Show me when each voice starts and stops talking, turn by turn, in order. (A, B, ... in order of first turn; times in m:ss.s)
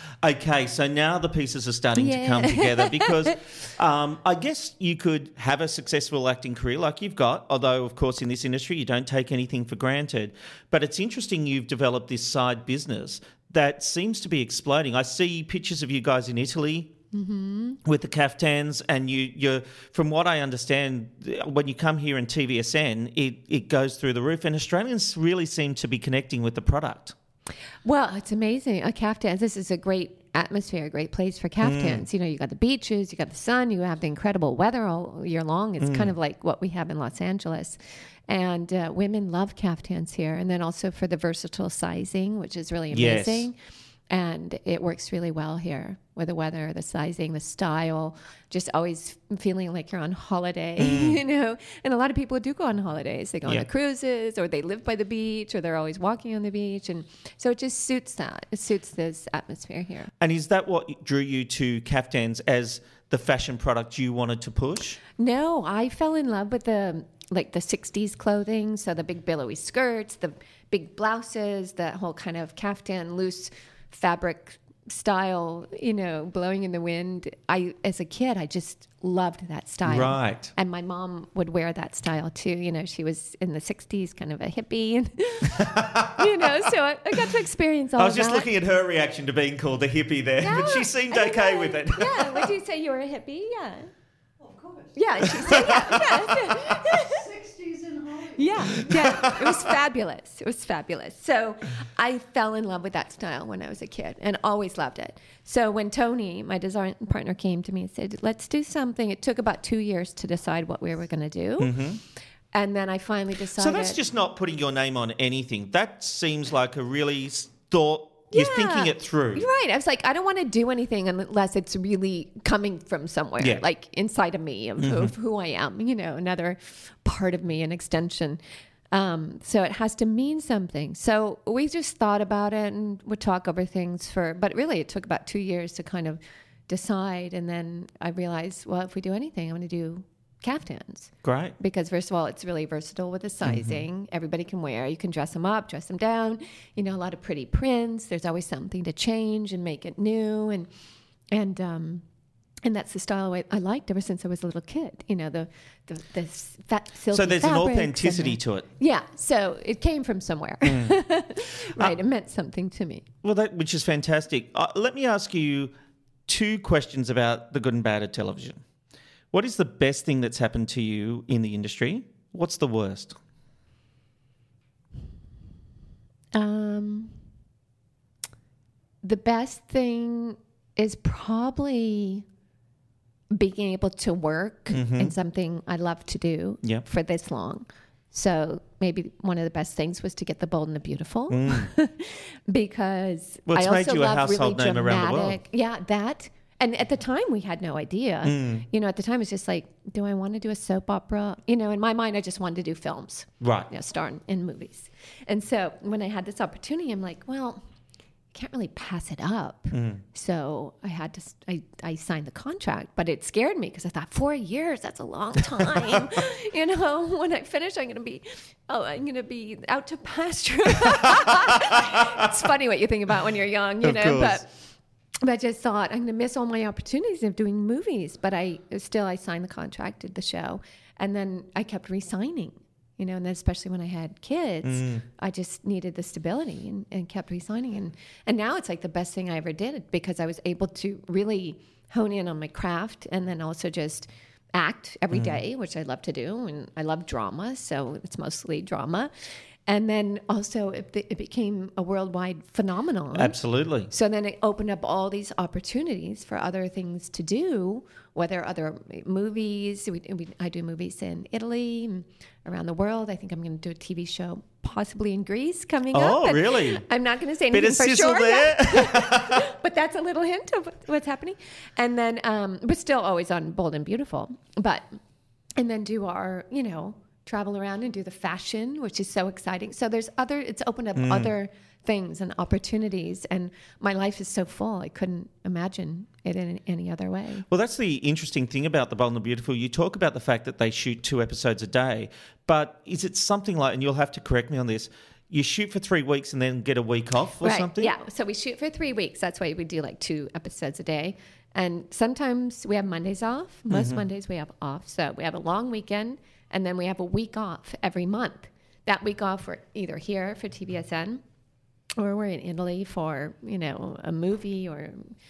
0:00.2-0:16.9 A
0:02.0-0:03.3 B
0:17.1-0:17.8 B
0:17.8-0:27.1 A
0:27.8-0:43.5 B
0:31.6-0:32.0 A
0:35.8-0:36.1 A
0:42.9-0:43.5 A
0:44.1-1:00.1 B
0:50.8-0:51.2 A
1:00.2-1:05.0 A
1:05.2-1:28.5 B
1:19.8-1:20.5 A
1:25.6-1:26.5 A
1:28.0-1:32.5 A
1:30.4-1:33.9 B
1:34.9-1:37.4 B
1:35.2-1:36.6 A
1:38.1-1:51.8 B
1:38.6-1:39.7 A
1:51.6-1:52.0 A
1:52.5-1:54.0 B
1:53.6-1:59.4 A
1:58.3-2:08.4 B
2:04.8-2:05.1 A
2:08.9-2:30.7 B
2:21.2-2:21.5 A
2:23.4-2:23.8 A
2:31.3-2:32.0 B
2:32.6-2:43.0 B
2:37.1-2:38.6 A
2:40.6-2:41.0 A
2:43.2-2:45.7 A
2:46.3-2:48.6 A
2:49.3-2:53.2 A
2:56.3-2:57.2 B
2:59.0-3:02.2 B
3:03.3-3:27.6 B
3:04.7-3:05.1 A
3:11.3-3:11.7 A
3:13.5-3:15.4 A
3:18.2-3:18.6 A
3:23.4-3:23.7 A
3:28.3-3:44.6 B
3:29.7-3:30.0 A
3:43.8-3:44.4 A
3:45.2-4:09.1 B
3:54.6-3:55.0 A
4:05.1-4:05.4 A
4:09.7-4:13.4 B
4:13.1-4:13.9 A
4:13.9-4:35.0 B
4:25.9-4:26.8 A
4:27.5-4:29.4 A
4:35.6-4:47.4 B
4:41.0-4:41.3 A
4:47.5-4:57.9 A
4:57.4-5:11.2 B
5:03.7-5:04.0 A
5:12.0-5:15.1 B